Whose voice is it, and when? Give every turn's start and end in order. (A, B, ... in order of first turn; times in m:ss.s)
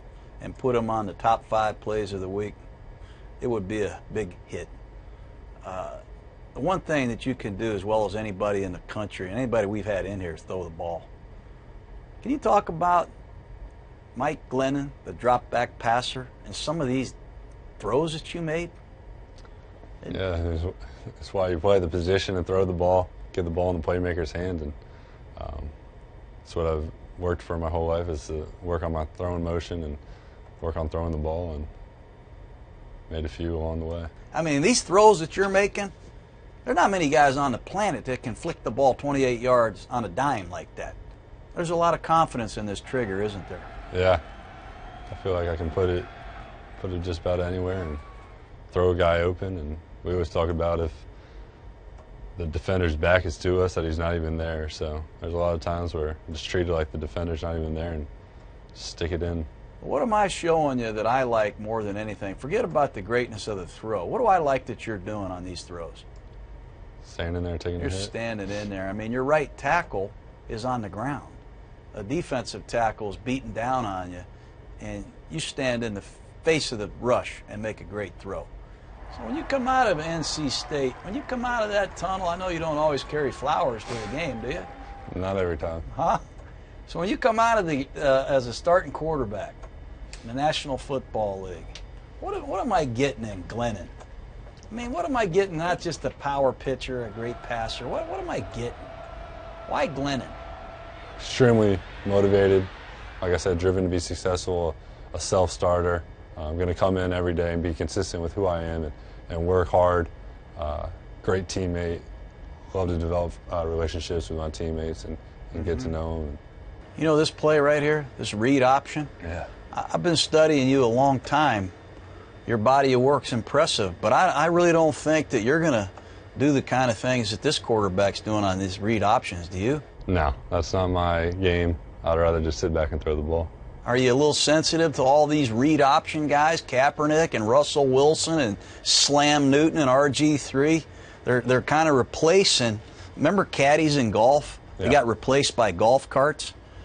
0:00.4-0:02.6 A
0:03.4-0:04.7 A
0:05.6-0:06.0 A
0:06.5-0:11.1 A
0:12.2-0:13.1 A
0:14.1-0:17.1 A
0:17.8-0:18.7 A
0:20.1-0:24.7 B
0:25.4-0:25.7 B
0:26.4-0:30.0 B
0:30.6-0:31.7 B
0:33.1-0:34.1 B
0:34.3-0:35.9 A
0:36.6-0:41.0 A
0:41.5-0:43.7 A
0:43.9-0:44.2 B
0:45.1-0:46.1 B
0:46.8-0:48.0 B
0:48.7-0:51.0 B
0:52.4-0:58.1 B
0:58.7-0:59.5 B
0:59.8-1:06.0 A
1:07.0-1:08.1 B
1:07.8-1:11.4 A
1:11.9-1:14.3 A
1:14.8-1:18.5 A
1:19.1-1:24.7 A
1:25.1-1:25.9 B
1:25.9-1:26.2 A
1:26.9-1:29.6 A
1:30.2-1:33.9 A
1:34.7-1:38.8 A
1:39.6-1:40.4 A
1:41.2-1:52.0 B
1:52.7-1:56.4 B
1:55.6-1:55.9 A
1:57.0-1:59.1 A
1:59.7-2:01.7 A
2:02.4-2:09.8 A
2:10.1-2:13.5 B
2:13.8-2:26.5 A